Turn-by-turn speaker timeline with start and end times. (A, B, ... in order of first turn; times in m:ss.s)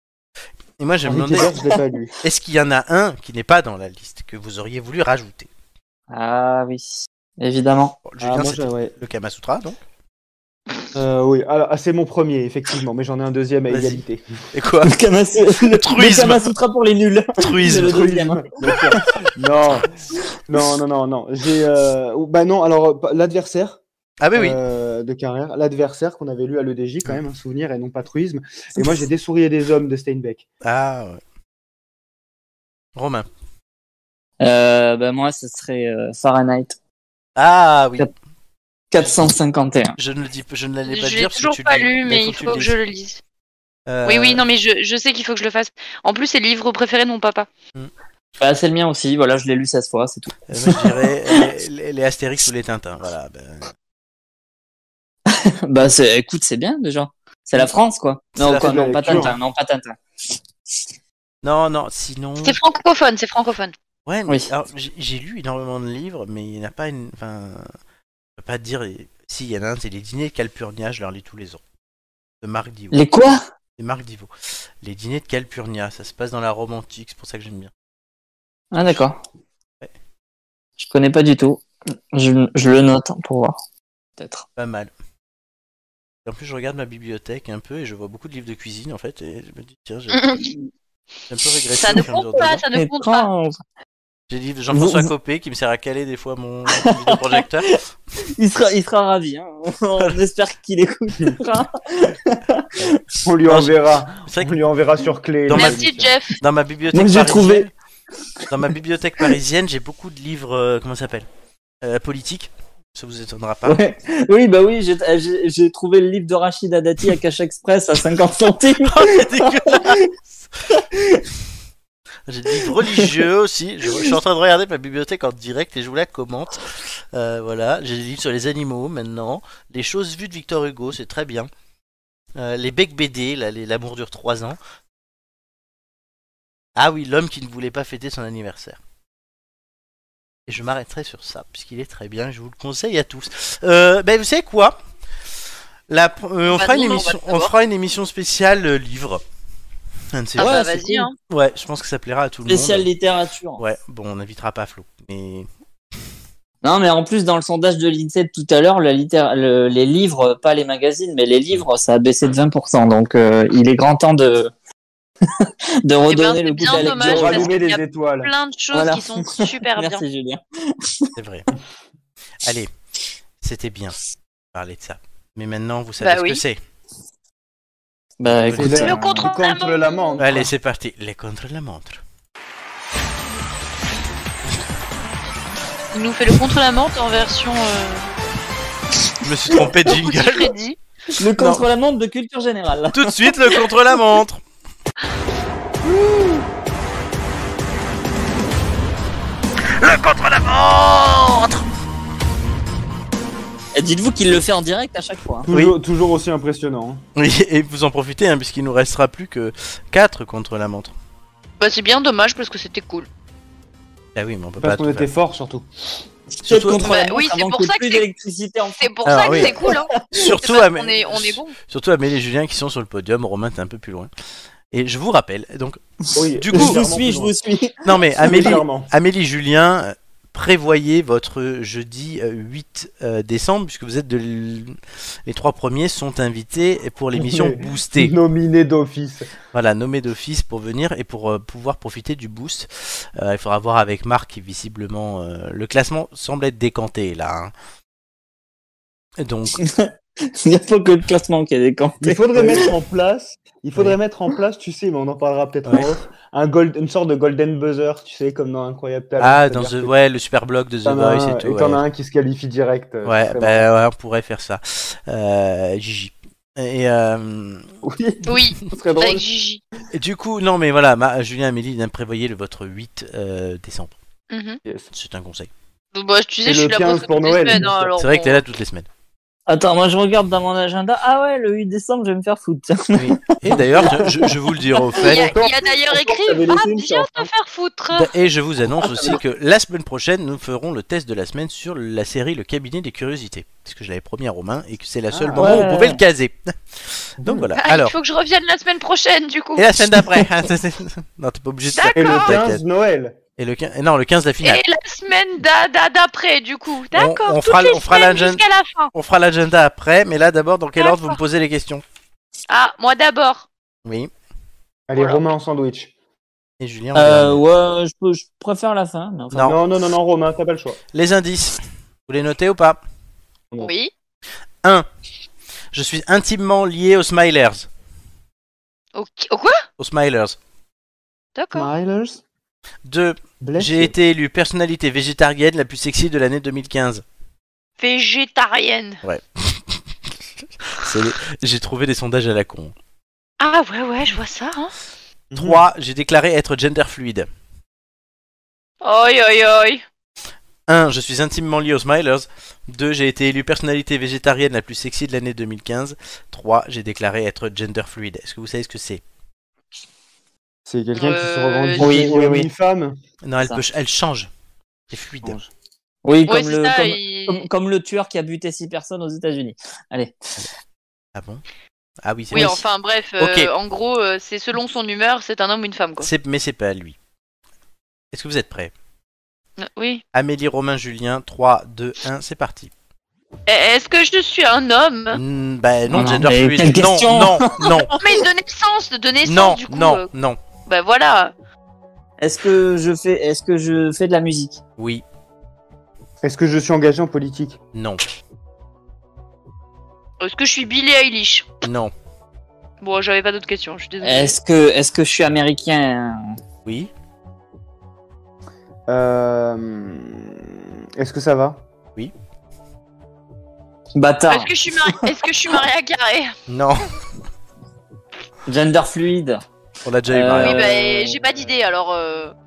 0:00.8-0:01.6 A
0:01.0-0:02.1 B
0:02.2-0:05.5 A
0:06.1-0:08.0 C
0:08.0-0:09.8 A
0:08.2-0:08.9 B
0:11.0-0:14.2 B
0:13.7-0:14.9 A
0:14.8-0:18.8 C
0:15.6-0:16.6 A
0:17.4-0:18.1 A
0:17.7-0:19.9 B
0:20.5-0:23.8 B
0:24.2-0:24.6 A
0:24.4-0:30.4 B
0:30.6-0:31.2 A
0:33.0-0:33.3 A
0:34.4-0:36.8 C
0:37.4-0:38.1 A
0:38.9-0:40.0 C
0:40.0-0:42.8 A
0:40.9-0:43.2 D
0:43.9-0:44.4 A
0:44.0-0:47.5 D
0:48.4-0:51.4 C
0:50.5-0:53.7 A
0:55.3-1:00.0 C
0:58.4-0:59.3 A
0:58.5-0:59.4 B
1:01.4-1:02.6 A
1:02.4-1:03.7 D
1:04.1-1:07.7 A
1:08.4-1:11.6 A
1:12.4-1:17.7 A
1:12.9-1:13.4 C
1:18.7-1:19.2 C
1:20.8-1:23.6 C
1:24.2-1:24.5 C
1:24.6-1:24.9 A
1:26.2-1:30.3 A
1:30.1-1:30.5 D
1:31.3-1:32.6 A
1:31.8-1:33.3 D
1:32.7-1:33.6 C
1:34.3-1:37.7 A
1:34.7-1:35.1 C
1:36.7-1:43.2 C
1:42.8-1:44.6 A
1:43.2-1:46.1 B
1:45.4-1:47.7 A
1:45.5-1:46.4 D
1:46.9-1:47.7 C
1:48.5-1:51.3 A
1:51.8-1:53.8 A
1:53.7-2:00.1 C
1:58.8-2:00.4 A
2:00.7-2:01.2 C
2:02.3-2:11.5 A
2:02.6-2:03.1 C
2:12.4-2:14.6 A
2:16.8-2:18.8 A
2:20.5-2:24.8 A
2:25.9-2:29.2 A
2:26.5-2:27.5 D
2:30.1-2:30.6 A
2:30.4-2:31.2 D
2:30.4-2:31.1 C
2:31.3-2:32.9 A
2:32.5-2:33.6 C
2:33.6-2:35.5 A
2:36.6-2:44.5 C
2:45.3-2:47.5 C
2:46.1-2:50.0 D
2:46.7-2:48.3 B
2:48.7-2:51.1 C
2:51.2-2:51.5 A
2:52.4-2:52.7 A
2:53.4-2:54.0 A
2:54.5-2:56.6 A
2:56.0-2:56.4 D
2:58.2-2:59.3 C
2:58.2-2:59.0 A
2:58.6-3:00.5 B
2:58.8-3:00.2 D
3:00.2-3:02.0 A
3:05.9-3:08.1 D
3:09.2-3:10.5 A
3:09.8-3:10.8 D
3:11.2-3:13.6 C
3:11.3-3:11.6 A
3:12.9-3:14.4 A
3:15.9-3:16.3 B
3:19.7-3:21.6 A
3:23.8-3:25.5 C
3:25.5-3:27.0 B
3:25.5-3:25.8 A
3:27.2-3:30.9 A
3:31.6-3:33.1 D
3:34.2-3:35.1 A
3:34.6-3:35.7 B
3:36.4-3:40.1 C
3:36.4-3:37.0 A
3:36.8-3:38.0 D
3:38.8-3:41.6 D
3:39.0-3:44.1 A
3:44.7-3:45.8 A
3:46.2-3:47.3 B
3:46.4-3:46.8 A
3:46.5-3:48.6 C
3:47.8-3:58.1 A
3:48.2-3:48.9 B
3:57.2-3:59.3 B
3:59.5-4:07.5 A
4:09.2-4:09.6 A
4:09.6-4:12.7 C
4:12.0-4:19.9 B
4:19.2-4:21.8 A
4:20.8-4:23.7 B
4:23.0-4:27.7 A
4:27.8-4:29.2 B
4:28.2-4:29.6 D
4:29.9-4:33.9 A
4:34.3-4:34.6 D
4:34.9-4:35.5 A
4:35.9-4:38.4 D
4:36.4-4:37.9 B
4:38.0-4:38.9 A
4:39.5-4:44.0 C
4:42.9-4:45.4 A
4:43.5-4:44.3 B
4:44.9-4:47.3 B
4:45.0-4:48.1 D
4:46.3-4:47.2 C
4:47.9-4:58.0 A
4:48.8-4:49.2 C
4:55.1-4:55.6 B
4:55.4-4:56.0 C
4:57.2-4:57.5 B
4:57.6-4:59.7 D
4:59.6-5:02.6 A
5:01.7-5:02.4 D
5:02.0-5:03.2 B
5:03.4-5:04.6 A
5:04.4-5:08.9 D
5:06.9-5:11.8 A
5:10.8-5:11.2 D
5:12.5-5:13.5 D
5:13.8-5:14.1 A
5:14.9-5:15.9 B
5:15.0-5:15.2 D
5:16.6-5:17.4 A
5:17.0-5:19.6 C
5:19.3-5:19.6 A
5:19.4-5:20.8 B
5:20.9-5:22.8 A
5:23.6-5:23.9 D
5:25.7-5:27.7 A
5:29.0-5:29.6 D
5:29.8-5:30.4 A
5:31.4-5:31.7 D
5:31.6-5:32.2 B
5:32.8-5:37.0 A
5:33.4-5:33.9 B
5:37.8-5:39.0 D
5:39.0-5:42.8 A
5:43.4-5:44.7 D
5:45.3-5:45.6 B
5:45.4-5:47.3 A
5:48.8-5:49.8 D
5:50.7-5:59.0 A
6:00.7-6:03.0 B
6:01.0-6:02.0 D
6:01.8-6:02.5 C
6:03.2-6:04.3 A
6:04.9-6:05.4 A
6:05.2-6:05.5 B
6:06.0-6:10.2 C
6:06.3-6:07.5 D
6:11.2-6:11.4 A
6:12.0-6:12.6 A
6:12.3-6:16.1 D
6:13.2-6:13.5 A
6:16.0-6:17.0 A
6:18.1-6:18.7 A
6:19.6-6:20.0 D
6:20.1-6:22.7 A
6:23.5-6:25.2 D
6:25.1-6:27.9 A
6:25.9-6:28.0 C
6:28.0-6:30.1 D
6:29.2-6:30.4 A
6:30.7-6:31.3 D
6:32.2-6:34.6 C
6:34.8-6:35.0 A
6:36.2-6:37.6 B
6:37.7-6:38.0 A
6:40.2-6:41.6 D
6:41.6-6:41.9 A
6:42.8-6:44.4 D
6:44.0-6:46.4 C
6:46.6-6:46.9 A
6:48.9-6:51.6 B
6:54.0-6:55.0 C
6:54.3-6:56.3 D
6:56.5-6:56.9 A
6:58.5-6:59.4 C
6:59.8-7:00.7 A
7:00.1-7:01.2 C
7:00.4-7:02.3 D